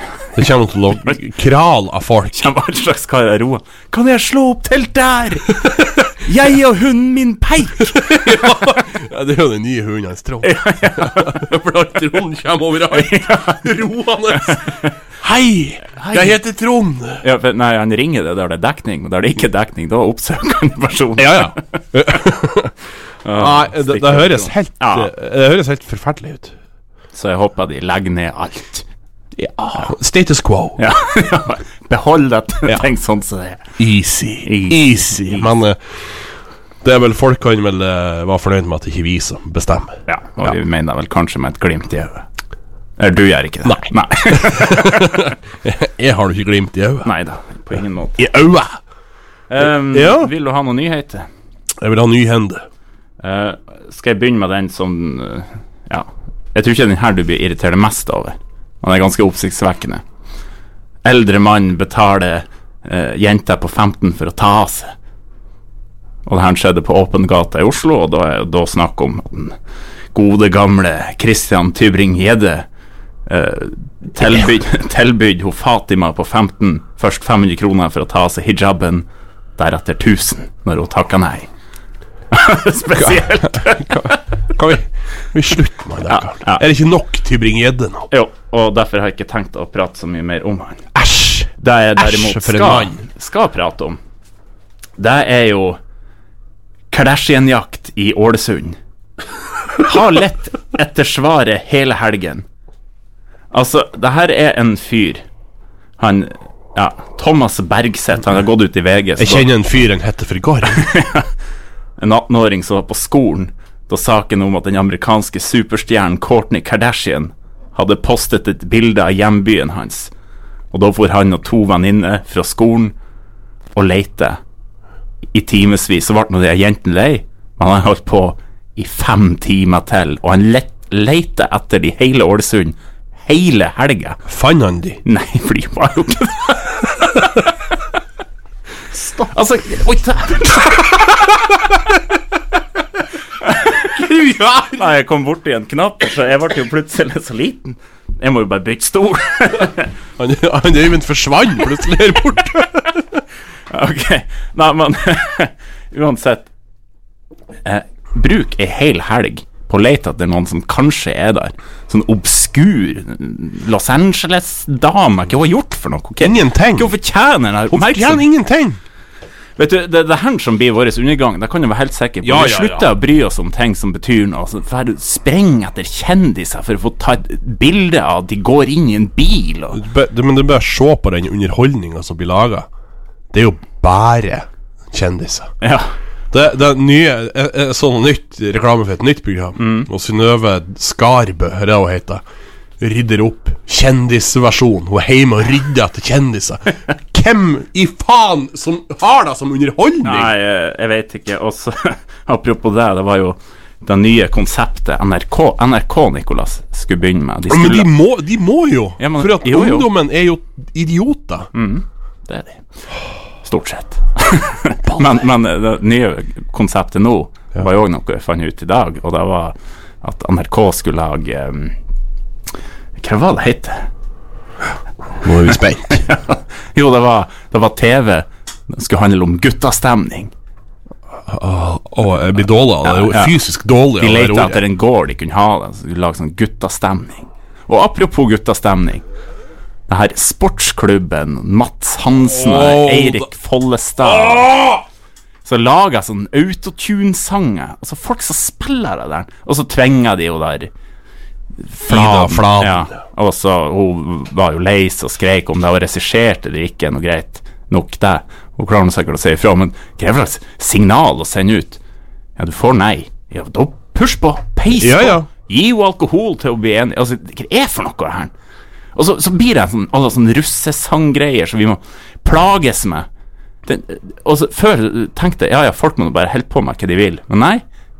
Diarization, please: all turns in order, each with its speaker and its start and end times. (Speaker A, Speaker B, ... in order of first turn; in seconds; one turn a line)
Speaker A: 0.3-2.5
Speaker B: 2.3-8.8
Speaker A: 7.9-17.2
Speaker B: 10.4-11.4
Speaker B: 12.9-14.9
Speaker B: 15.9-16.4
Speaker B: 17.2-21.7
Speaker A: 21.2-22.7
Speaker B: 23.2-25.1
Speaker A: 23.3-26.6
Speaker B: 27.1-28.9
Speaker A: 29.4-30.8
Speaker B: 30.8-33.6
Speaker A: 33.8-35.8
Speaker B: 34.4-35.5
Speaker A: 36.8-40.6
Speaker B: 40.1-42.2
Speaker B: 43.0-45.3
Speaker A: 43.6-47.1
Speaker B: 47.0-48.3
Speaker A: 48.2-48.8
Speaker B: 49.5-51.3
Speaker A: 49.6-50.3
Speaker A: 51.8-52.6
Speaker B: 53.2-60.0
Speaker B: 61.0-64.9
Speaker B: 66.3-69.5
Speaker B: 70.1-72.7
Speaker B: 73.3-81.5
Speaker B: 82.3-84.2
Speaker A: 83.0-88.1
Speaker B: 86.1-86.6
Speaker B: 88.1-90.8
Speaker A: 91.0-93.0
Speaker B: 91.6-94.0
Speaker B: 95.0-95.8
Speaker B: 96.9-98.8
Speaker B: 99.8-102.5
Speaker B: 103.5-105.2
Speaker B: 106.0-109.5
Speaker A: 109.2-110.9
Speaker B: 110.7-111.3
Speaker B: 112.0-120.1
Speaker B: 120.7-122.9
Speaker B: 123.8-124.4
Speaker B: 125.3-134.2
Speaker A: 134.3-135.0
Speaker B: 135.1-137.0
Speaker A: 138.9-139.3
Speaker B: 139.2-141.1
Speaker B: 143.4-143.8
Speaker A: 143.7-144.8
Speaker B: 144.8-149.9
Speaker A: 150.2-153.2
Speaker B: 153.7-156.5
Speaker B: 157.7-168.2
Speaker A: 166.2-166.9
Speaker A: 167.7-168.8
Speaker B: 169.6-179.8
Speaker A: 172.2-172.9
Speaker A: 179.7-182.7
Speaker A: 183.3-185.5
Speaker B: 185.6-185.9
Speaker A: 186.3-192.2
Speaker B: 189.6-189.9
Speaker A: 192.8-200.3
Speaker B: 200.1-207.9
Speaker A: 207.5-211.5
Speaker B: 209.0-209.9
Speaker B: 211.5-212.7
Speaker B: 213.4-221.8
Speaker A: 214.9-215.2
Speaker B: 223.0-223.9
Speaker A: 225.2-226.1
Speaker B: 225.9-230.3
Speaker A: 231.3-234.6
Speaker B: 232.8-233.3
Speaker B: 234.0-239.1
Speaker B: 239.9-244.5
Speaker A: 242.3-243.3
Speaker A: 244.0-244.8
Speaker B: 245.4-250.7
Speaker B: 251.7-261.8
Speaker A: 251.9-252.9
Speaker B: 262.4-268.3
Speaker A: 264.8-265.3
Speaker B: 268.9-273.1
Speaker B: 273.7-277.6